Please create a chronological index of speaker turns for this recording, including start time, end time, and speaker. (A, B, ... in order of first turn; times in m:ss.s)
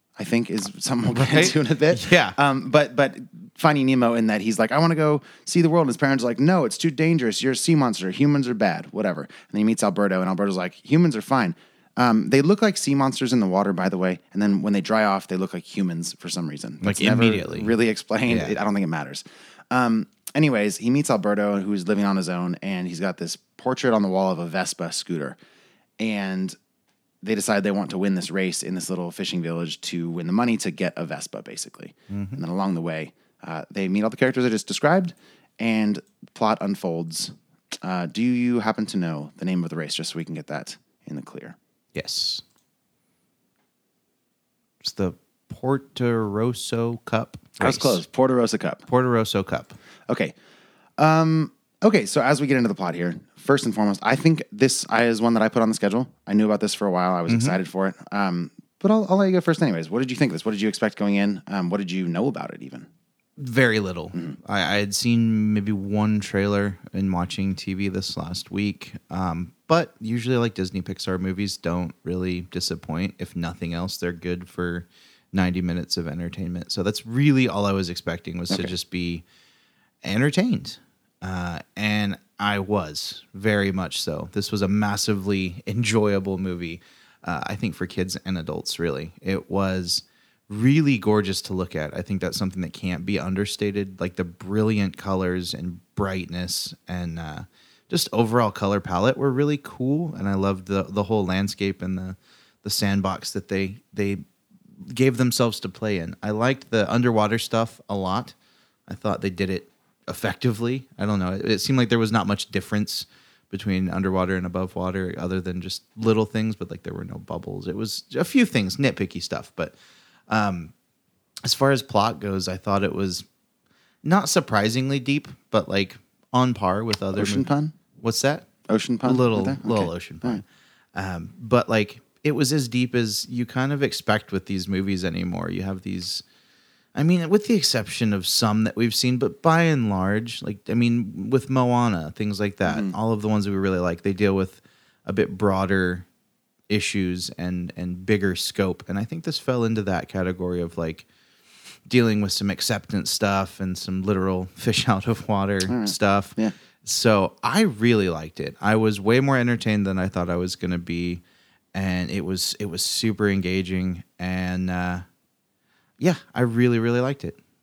0:00.2-0:25.4 A
0:01.1-0:02.4 B
0:16.8-0:18.6 B
0:26.0-0:26.6 A
0:27.2-0:41.6 A
0:32.1-0:32.4 B
0:41.9-0:42.4 B
0:44.8-0:48.0 B
0:47.6-0:48.8 A
0:48.9-0:49.8 B
0:50.1-0:50.4 A
0:51.0-1:02.9 A
0:57.3-0:57.6 B
1:03.4-1:19.2 B
1:04.1-1:04.4 A
1:20.0-1:44.2 B
1:44.8-1:48.3 B
1:48.9-1:59.7 B
2:00.3-2:00.7 B
2:01.4-2:03.2 B
2:04.0-2:07.5 B
2:07.1-2:07.8 A
2:08.0-2:08.5 B
2:08.7-2:10.4 A
2:09.0-2:16.2 B
2:16.9-2:26.1 B
2:22.6-2:22.9 A
2:26.7-2:31.1 B
2:31.9-2:41.2 B
2:35.6-2:36.5 A
2:41.7-2:45.0 B
2:46.0-2:47.4 B